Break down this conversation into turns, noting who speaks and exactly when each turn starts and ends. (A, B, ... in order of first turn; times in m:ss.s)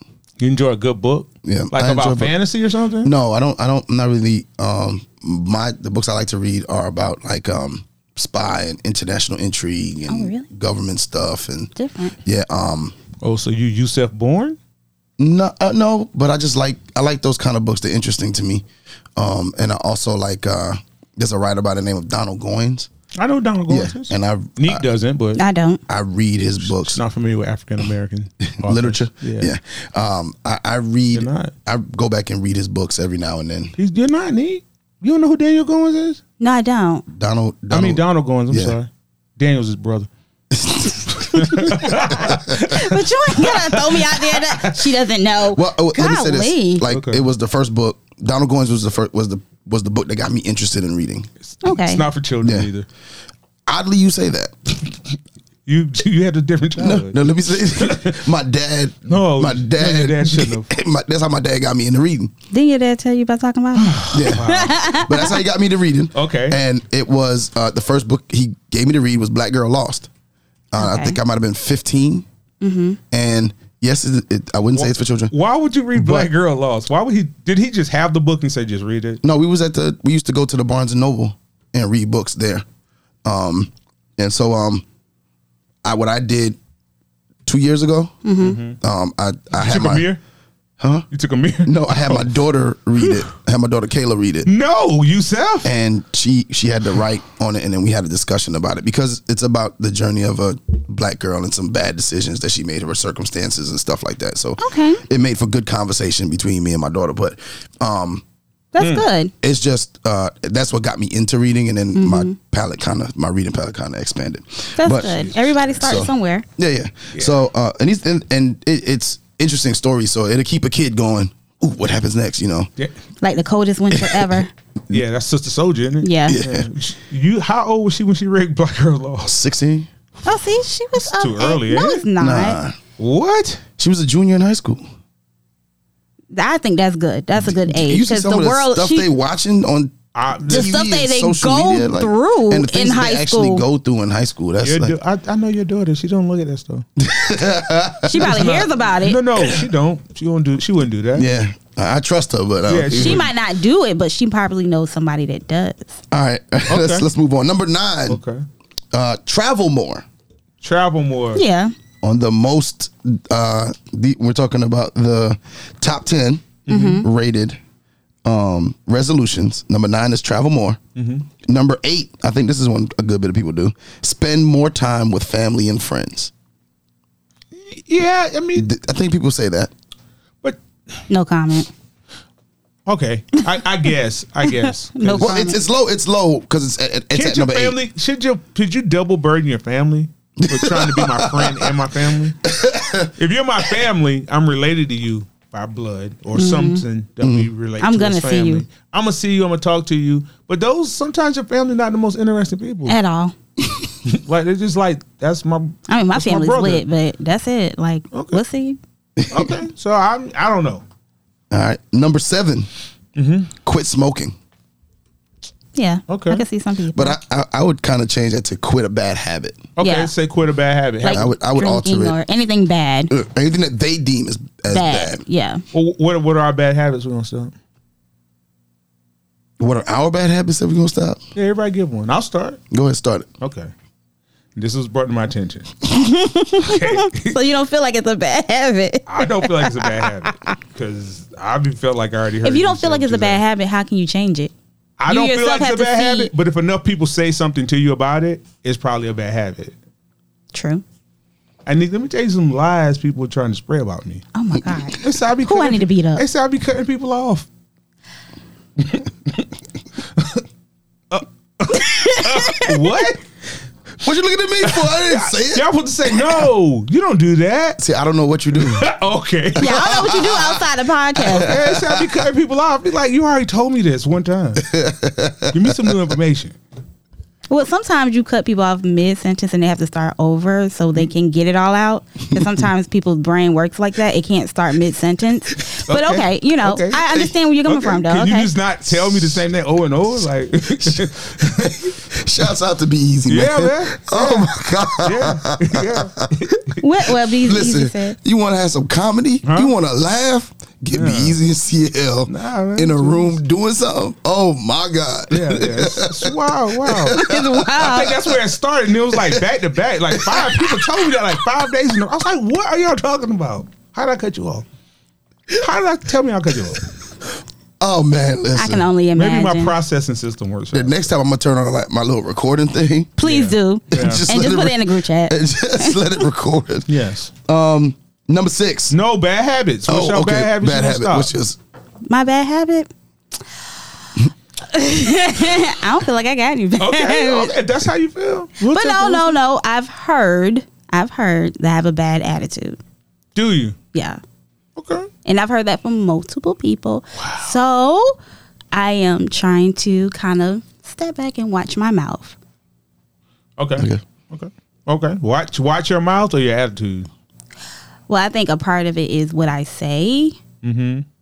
0:00.4-0:03.1 A
0:01.4-0:02.3 B
0:03.0-0:11.7 B
0:10.1-0:10.5 C
0:11.7-0:12.2 C
0:12.2-0:12.9 B
0:13.2-0:14.6 A
0:15.2-0:18.6 B
0:19.2-0:22.9 B
0:23.2-0:25.4 A
0:23.7-0:24.8 B
0:25.4-0:25.8 C
0:25.9-0:27.0 B
0:26.6-0:29.5 A
0:28.4-0:33.7 B
0:31.1-0:31.5 A
0:33.8-0:36.2 A
0:36.4-0:37.0 C
0:37.1-0:38.8 B
0:37.7-0:40.1 A
0:40.5-0:42.6 B
0:41.3-0:44.9 A
0:42.5-0:46.8 C
0:45.5-0:51.3 B
0:46.8-0:47.2 A
0:51.5-0:52.9 A
0:51.6-0:52.0 C
0:52.4-0:52.7 B
0:53.7-0:54.8 B
0:55.6-0:58.2 A
0:56.8-1:02.3 B
0:59.1-1:00.7 A
1:02.5-1:05.4 C
1:03.7-1:05.0 A
1:04.1-1:10.1 B
1:06.1-1:06.6 A
1:10.7-1:12.2 B
1:10.8-1:11.2 C
1:12.6-1:13.0 C
1:13.1-1:15.3 B
1:14.7-1:19.2 A
1:15.9-1:16.3 B
1:19.2-1:22.6 B
1:23.2-1:24.8 B
1:25.8-1:26.6 B
1:27.4-1:28.2 B
1:28.2-1:28.6 C
1:28.4-1:28.8 A
1:28.7-1:30.1 B
1:29.6-1:30.2 A
1:30.8-1:31.1 B
1:31.1-1:32.3 A
1:31.6-1:34.5 B
1:34.4-1:35.7 A
1:35.6-1:48.2 B
1:44.6-1:45.0 C
1:48.7-1:49.3 C
1:48.8-1:49.0 A
1:49.4-1:55.2 B
1:51.9-1:52.4 C
1:54.8-1:56.4 C
1:54.8-1:55.8 A
1:55.8-2:02.7 B
2:03.2-2:04.5 C
2:03.9-2:04.3 B
2:04.9-2:09.4 A
2:06.0-2:06.4 C
2:06.3-2:06.7 B
2:09.2-2:09.9 B
2:10.2-2:12.6 C
2:11.0-2:12.0 A
2:12.2-2:12.8 B
2:13.0-2:13.6 A
2:13.8-2:14.8 B
2:16.3-2:19.1 C
2:17.4-2:24.9 B
2:20.1-2:20.8 A
2:20.5-2:23.6 C
2:24.6-2:26.8 A
2:27.0-2:28.4 B
2:28.0-2:29.2 C
2:28.1-2:31.3 A
2:31.1-2:33.3 B
2:32.7-2:33.3 A
2:32.9-2:36.0 C
2:36.1-2:38.2 B
2:36.7-2:37.0 A
2:38.1-2:38.4 A
2:38.9-2:40.0 B
2:40.6-2:41.4 A
2:41.3-2:41.7 C
2:42.0-2:47.6 B
2:46.7-2:47.0 A
2:46.7-2:47.0 C
2:48.2-2:50.8 B
2:51.0-2:51.2 A
2:51.4-2:56.3 B
2:57.5-2:58.7 A
2:58.5-2:59.7 B
3:00.4-3:01.0 A
3:01.1-3:01.7 C
3:02.8-3:05.3 A
3:04.9-3:05.6 C
3:05.2-3:07.8 B
3:07.1-3:12.4 A
3:10.4-3:11.8 B
3:12.4-3:13.1 B
3:13.2-3:23.0 A
3:16.3-3:16.8 C
3:17.2-3:17.5 B
3:17.8-3:18.6 C
3:22.9-3:23.3 C
3:24.0-3:26.8 A
3:25.9-3:28.8 C
3:28.1-3:28.4 A
3:29.2-3:29.5 B
3:29.3-3:30.8 A
3:31.5-3:32.7 B
3:33.2-3:33.5 A
3:33.6-3:34.3 B
3:35.7-3:37.2 C
3:36.1-3:36.4 A
3:36.9-3:39.7 B
3:39.8-3:41.3 A
3:39.8-3:40.1 C
3:41.0-3:43.1 C
3:41.1-3:42.2 B
3:43.1-3:45.2 B
3:44.7-3:45.6 C
3:45.7-3:47.5 A
3:49.6-3:51.2 B
3:51.3-3:52.6 A
3:52.7-3:53.3 B
3:53.4-3:53.7 A
3:54.6-3:55.8 A
3:55.9-4:00.3 C
3:56.6-3:57.4 A
3:59.1-4:03.4 A
4:02.4-4:04.5 C
4:05.0-4:09.7 A
4:05.1-4:06.3 C
4:10.5-4:10.8 C
4:11.6-4:14.2 A
4:14.3-4:16.2 C
4:15.0-4:17.5 A
4:18.8-4:19.4 A
4:20.1-4:20.4 A
4:21.1-4:23.3 A
4:21.7-4:23.0 C
4:24.0-4:26.4 B
4:24.6-4:27.8 A
4:27.8-4:28.9 B
4:28.6-4:29.9 A
4:29.5-4:30.6 B
4:29.6-4:31.5 C
4:31.2-4:32.1 B
4:31.3-4:34.7 A
4:34.6-4:35.9 B
4:35.5-4:36.5 A
4:37.5-4:48.5 C
4:45.8-4:51.9 A
4:50.8-4:56.3 B
4:53.3-4:56.7 A
4:56.8-4:58.2 C
4:57.2-5:08.4 B
4:59.4-4:59.7 A
5:00.9-5:01.4 A
5:02.3-5:03.4 A
5:05.3-5:07.2 A
5:07.1-5:08.3 C
5:07.7-5:14.6 A
5:09.1-5:09.4 B
5:10.1-5:11.1 B
5:15.5-5:16.9 A
5:17.8-5:18.9 B
5:18.5-5:19.7 C
5:19.1-5:21.0 A
5:20.7-5:23.1 B
5:23.2-5:26.0 C
5:23.2-5:24.2 A
5:23.9-5:29.0 B
5:26.9-5:27.3 A
5:28.9-5:31.3 A
5:29.9-5:31.6 B
5:32.0-5:32.9 C
5:34.6-5:37.5 C
5:36.8-5:39.3 A
5:38.6-5:42.8 C
5:43.3-5:43.8 A
5:43.9-5:44.2 C
5:44.8-5:45.1 A
5:45.2-5:48.2 C
5:47.2-5:47.5 A
5:48.7-5:52.4 C
5:53.6-5:57.1 A
5:53.8-5:54.0 B
5:58.1-6:00.4 C
6:00.6-6:01.0 A